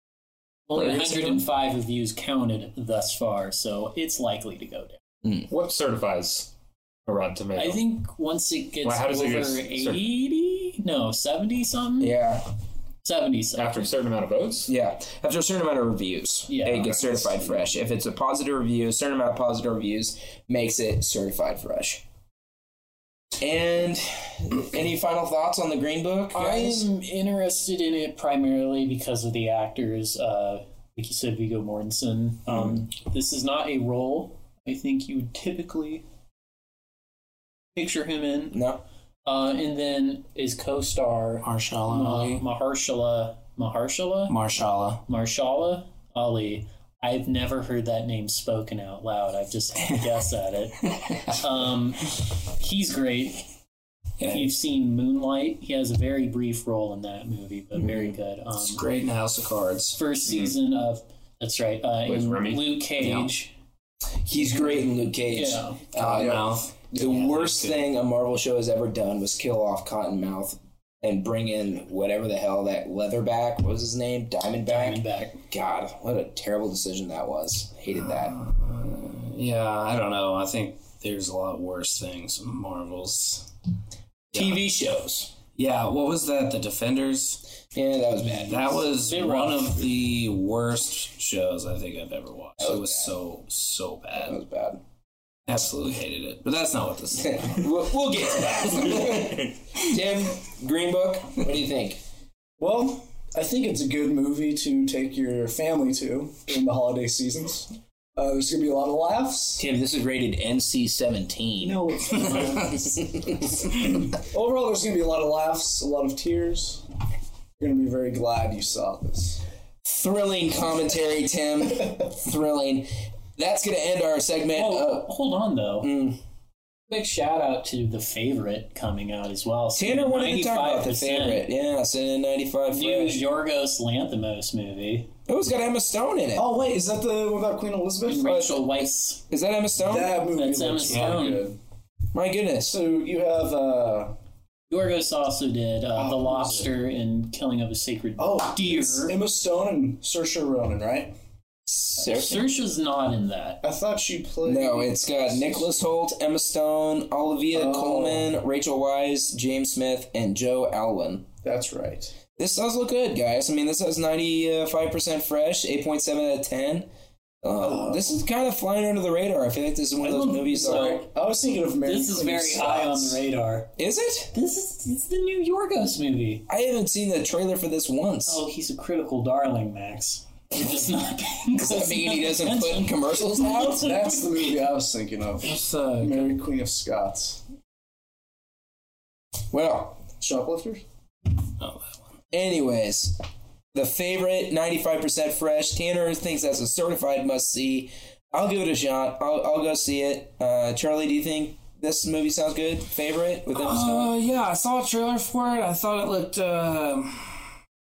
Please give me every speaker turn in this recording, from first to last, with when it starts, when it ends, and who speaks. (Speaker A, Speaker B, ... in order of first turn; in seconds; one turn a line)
Speaker A: 0.7-5.0
Speaker B: 0.7-1.4
Speaker C: 5.5-6.5
Speaker C: 7.0-7.8
Speaker A: 7.5-12.2
Speaker C: 8.8-10.1
Speaker B: 12.0-12.5
Speaker A: 13.0-13.9
Speaker C: 13.5-14.7
Speaker B: 14.7-22.0
Speaker A: 16.5-17.3
Speaker B: 23.4-26.9
Speaker A: 26.3-36.0
Speaker B: 32.5-32.8
Speaker A: 37.7-38.6
Speaker B: 38.5-38.8
Speaker A: 39.2-44.5
Speaker D: 41.4-42.4
Speaker D: 44.3-45.0
Speaker A: 45.1-53.5
Speaker D: 54.2-54.4
Speaker A: 54.2-58.9
Speaker D: 58.5-60.0
Speaker A: 60.0-63.5
Speaker C: 62.0-62.7
Speaker D: 63.0-63.3
Speaker B: 64.3-78.3
Speaker A: 65.3-65.8
Speaker D: 65.9-67.8
Speaker D: 74.7-75.3
Speaker A: 74.8-75.3
Speaker D: 77.9-83.5
Speaker B: 84.3-85.3
Speaker D: 85.6-87.4
Speaker B: 87.7-88.9
Speaker D: 88.4-94.3
Speaker A: 89.0-89.8
Speaker B: 92.6-93.1
Speaker B: 94.2-94.8
Speaker D: 95.5-97.6
Speaker B: 97.2-102.0
Speaker E: 102.6-109.6
Speaker B: 109.6-113.7
Speaker E: 111.6-112.7
Speaker A: 111.9-112.8
Speaker E: 113.7-116.8
Speaker E: 117.6-119.4
Speaker B: 119.8-125.1
Speaker A: 124.5-125.9
Speaker B: 125.8-126.2
Speaker A: 126.9-131.4
Speaker B: 129.7-133.2
Speaker A: 132.7-135.1
Speaker B: 135.3-136.4
Speaker E: 136.4-138.6
Speaker A: 138.1-139.2
Speaker B: 138.2-140.2
Speaker E: 139.9-141.6
Speaker A: 140.3-141.5
Speaker D: 140.9-141.2
Speaker B: 142.1-142.8
Speaker E: 142.6-144.2
Speaker A: 144.7-149.2
Speaker E: 145.9-146.7
Speaker E: 148.2-151.2
Speaker B: 151.7-152.5
Speaker A: 152.0-153.6
Speaker E: 153.6-155.8
Speaker B: 154.4-161.3
Speaker E: 157.5-158.3
Speaker E: 161.4-162.2
Speaker B: 162.4-166.9
Speaker B: 167.4-171.0
Speaker E: 167.6-168.0
Speaker E: 170.0-173.2
Speaker A: 170.5-171.1
Speaker A: 171.8-173.7
Speaker B: 173.8-174.3
Speaker A: 174.3-176.4
Speaker B: 176.5-178.4
Speaker A: 178.3-184.4
Speaker B: 181.6-183.8
Speaker E: 183.8-187.4
Speaker D: 185.4-186.4
Speaker B: 189.5-190.0
Speaker E: 190.2-190.8
Speaker D: 191.6-192.0
Speaker B: 192.3-193.2
Speaker B: 193.7-204.1
Speaker D: 203.5-207.5